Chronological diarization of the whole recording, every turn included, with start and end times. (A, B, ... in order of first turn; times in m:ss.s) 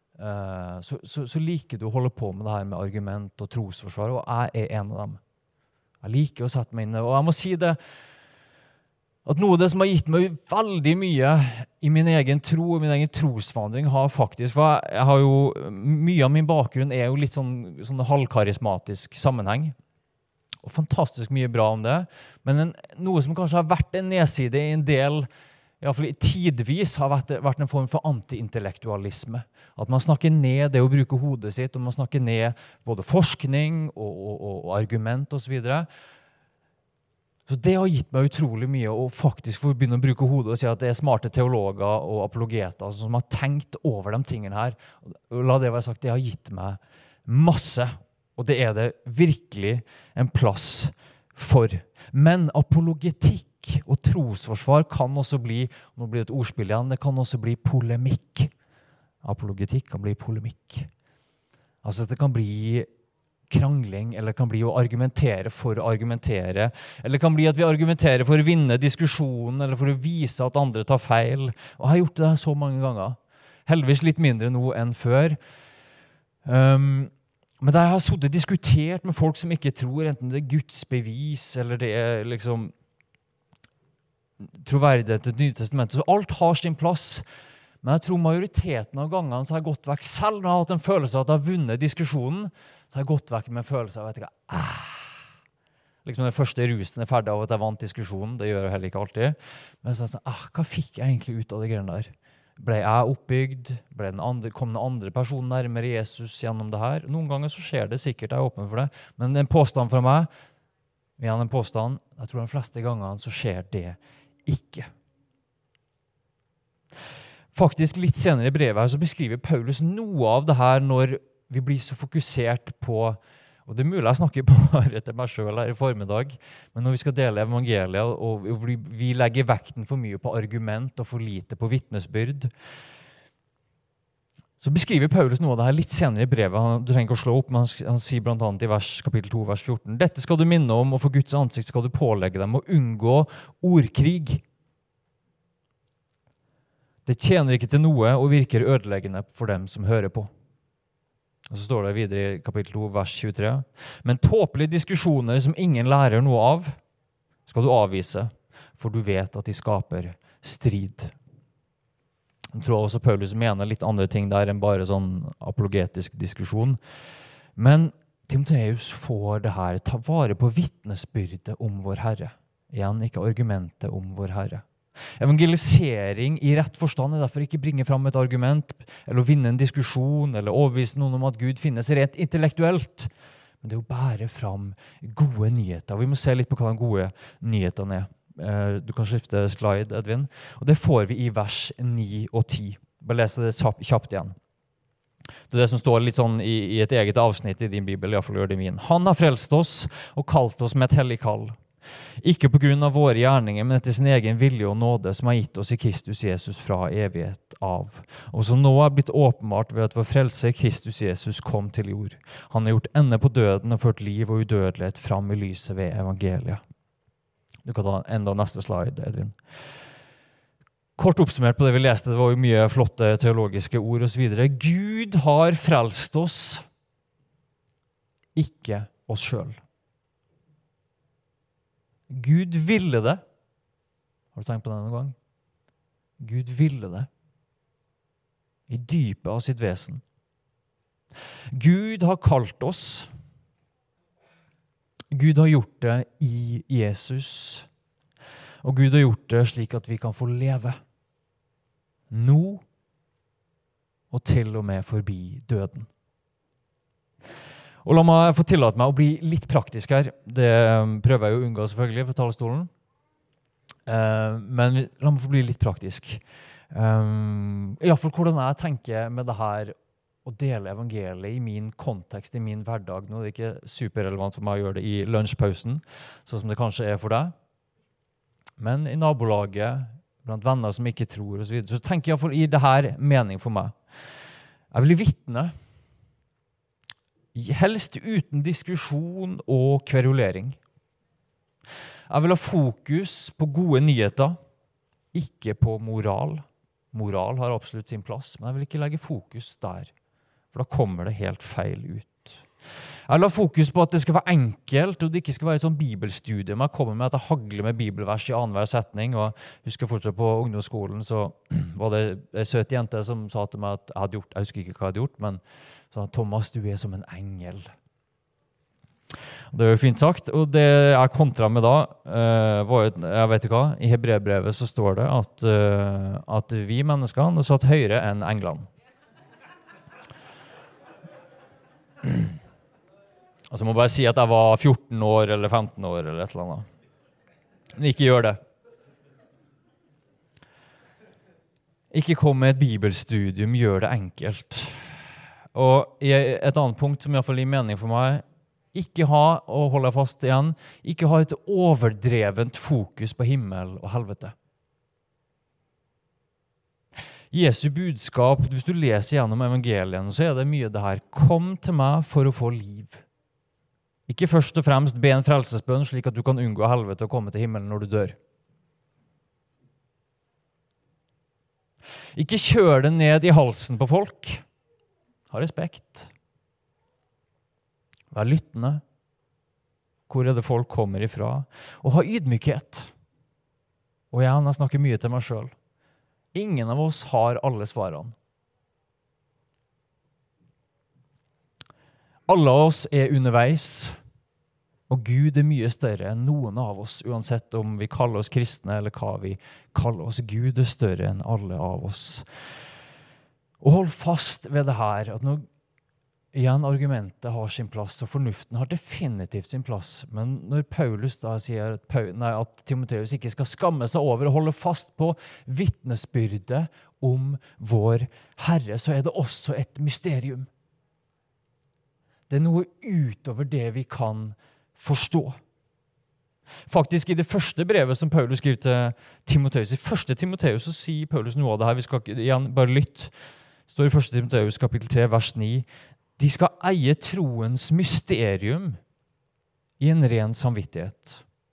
0:00.2-0:05.2 A
0:06.0-0:07.8 A
0:09.3-0:19.8 A
0:20.6-0:25.3 A
0:25.8-0:35.9 A
0:37.5-0:58.5 A
0:59.2-1:00.9 A
1:01.8-1:02.9 A
1:03.5-1:15.4 A
1:16.4-1:22.7 A
1:24.6-1:27.2 A
1:27.8-1:35.2 A
1:36.0-1:50.3 A
1:51.2-1:54.9 A
1:57.5-2:12.5 A
2:14.6-2:24.4 A
2:27.1-2:30.3 A
2:31.5-2:36.8 A
2:37.5-2:41.1 A
2:42.6-2:46.8 A
2:47.6-2:54.6 A
2:55.2-3:03.1 A
3:03.6-3:14.4 A
3:15.5-3:21.6 A
3:22.2-3:36.6 A
3:37.6-3:39.4 A
3:41.0-3:46.6 A
3:48.4-3:49.6 A
3:52.1-3:53.2 A
3:54.3-3:55.2 A
3:56.2-3:57.1 A
3:58.7-4:00.0 A
4:01.5-4:03.1 A
4:05.1-4:07.7 A
4:08.6-4:10.8 A
4:12.1-4:12.6 A
4:14.1-4:15.9 A
4:17.8-4:22.7 A
4:23.9-4:37.3 A
4:38.6-4:43.8 A
4:44.7-4:45.5 A
4:47.3-4:50.6 A
4:52.1-4:54.4 A
4:55.1-4:59.9 A
5:00.5-5:02.4 A
5:03.1-5:17.7 A
5:19.5-5:28.7 A
5:33.5-5:36.7 A
5:37.8-5:38.4 A
5:41.9-5:44.8 A
5:45.5-5:54.3 A
5:57.3-6:03.0 A
6:04.1-6:08.2 A
6:12.2-6:14.4 A
6:15.3-6:16.1 A
6:18.1-6:18.8 A
6:20.1-6:22.9 A
6:24.1-6:25.5 A
6:26.3-6:28.2 A
6:32.3-6:34.0 A
6:34.9-6:42.2 A
6:43.6-6:45.4 A
6:46.3-7:00.5 A
7:02.3-7:05.4 A
7:06.7-7:13.1 A
7:13.7-7:15.7 A
7:16.2-7:18.8 A
7:19.8-7:21.2 A